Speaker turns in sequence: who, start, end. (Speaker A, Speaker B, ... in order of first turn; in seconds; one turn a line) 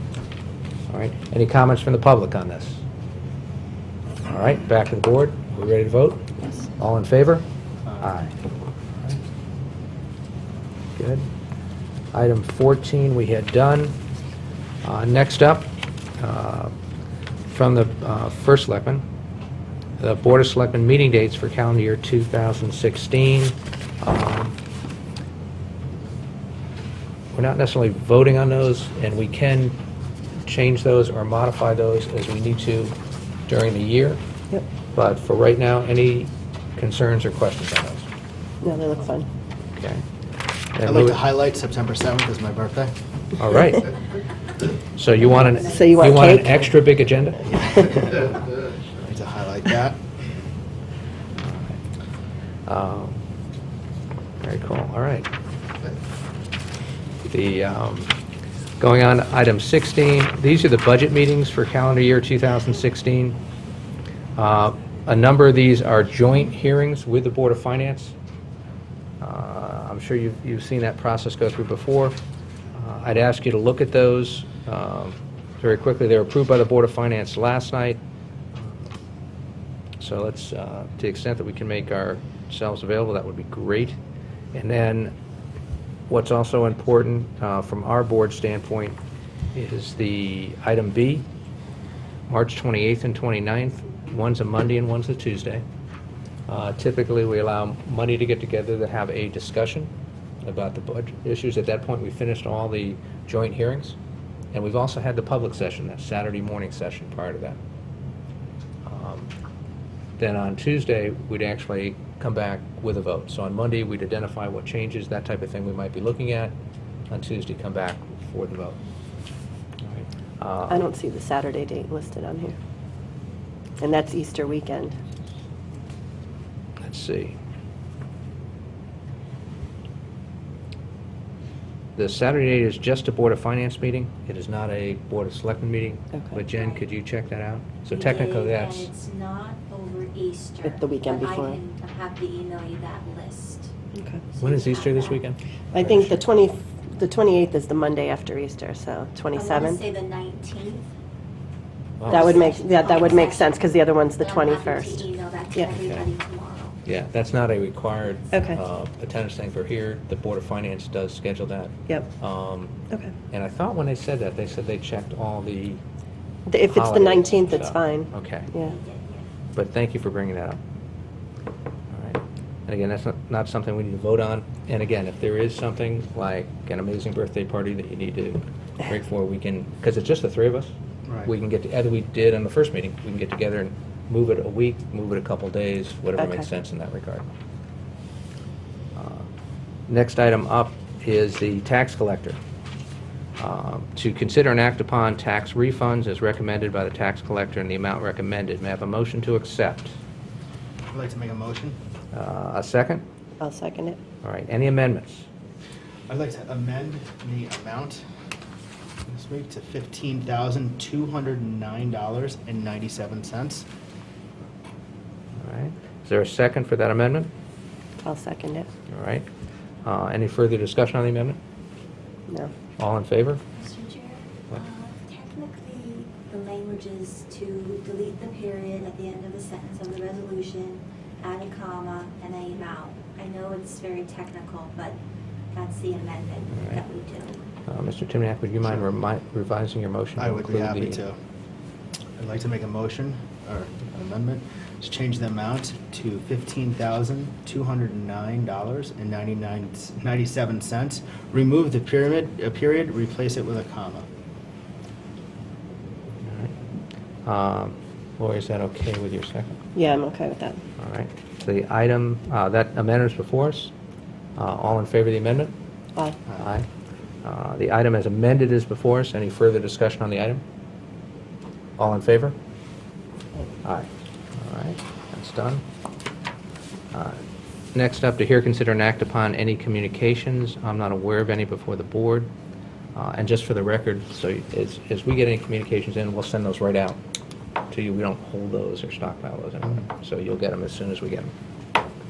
Speaker A: 0.9-2.8
Speaker A: 4.2-7.5
Speaker B: 7.9-8.2
Speaker A: 8.0-8.3
Speaker A: 11.0-11.3
Speaker A: 12.1-14.0
Speaker A: 14.8-16.8
Speaker A: 17.4-19.1
Speaker A: 20.0-24.6
Speaker A: 27.3-29.8
Speaker A: 30.4-33.0
Speaker A: 33.5-34.2
Speaker A: 34.9-38.1
Speaker C: 38.6-39.3
Speaker A: 39.8-40.0
Speaker A: 40.7-41.2
Speaker B: 40.8-42.9
Speaker A: 43.4-43.9
Speaker A: 44.9-47.7
Speaker C: 45.6-46.7
Speaker B: 47.6-48.4
Speaker B: 49.0-50.0
Speaker A: 51.4-51.8
Speaker A: 52.7-53.2
Speaker A: 54.4-55.3
Speaker A: 57.2-58.1
Speaker A: 58.8-63.4
Speaker A: 64.3-68.1
Speaker A: 69.2-72.2
Speaker A: 72.7-78.0
Speaker A: 80.0-84.0
Speaker A: 84.5-85.1
Speaker A: 86.1-89.0
Speaker A: 89.5-91.3
Speaker A: 92.3-95.6
Speaker A: 96.5-99.9
Speaker A: 100.4-104.0
Speaker A: 104.5-107.6
Speaker A: 108.8-109.3
Speaker A: 110.2-116.5
Speaker A: 117.1-118.8
Speaker A: 119.8-120.9
Speaker C: 120.7-122.6
Speaker C: 123.8-125.0
Speaker A: 126.8-127.4
Speaker A: 132.0-138.9
Speaker D: 136.5-136.8
Speaker D: 137.9-145.2
Speaker C: 140.6-141.6
Speaker C: 143.9-144.2
Speaker A: 144.4-146.2
Speaker C: 145.7-149.8
Speaker D: 149.3-150.9
Speaker A: 152.0-152.5
Speaker D: 152.1-153.6
Speaker C: 152.1-155.7
Speaker D: 154.2-156.8
Speaker A: 155.7-156.1
Speaker A: 156.8-162.8
Speaker C: 158.3-158.6
Speaker A: 163.3-165.8
Speaker C: 166.5-168.8
Speaker A: 166.7-168.5
Speaker D: 168.6-169.3
Speaker A: 169.5-170.6
Speaker A: 171.9-187.3
Speaker B: 181.1-181.3
Speaker C: 186.2-186.4
Speaker A: 189.0-189.3
Speaker A: 189.9-192.4
Speaker A: 193.4-200.0
Speaker B: 200.9-201.8
Speaker A: 202.1-203.0
Speaker C: 203.4-204.0
Speaker A: 204.2-205.3
Speaker B: 206.1-208.0
Speaker B: 209.1-213.7
Speaker A: 215.4-217.3
Speaker C: 218.0-218.7
Speaker A: 218.9-219.2
Speaker A: 219.8-221.4
Speaker A: 222.8-223.4
Speaker D: 223.6-235.0
Speaker D: 235.5-237.5
Speaker A: 236.5-236.8
Speaker A: 237.7-241.0
Speaker B: 240.2-241.2
Speaker B: 242.2-254.1
Speaker A: 256.2-256.5
Speaker A: 257.2-259.6
Speaker C: 259.8-260.6
Speaker A: 260.8-263.7
Speaker A: 264.4-265.5
Speaker A: 266.4-266.7
Speaker A: 267.2-270.4
Speaker A: 271.8-272.4
Speaker A: 273.6-275.6
Speaker A: 276.9-277.2
Speaker A: 277.7-282.3
Speaker A: 282.9-287.0
Speaker A: 287.7-291.3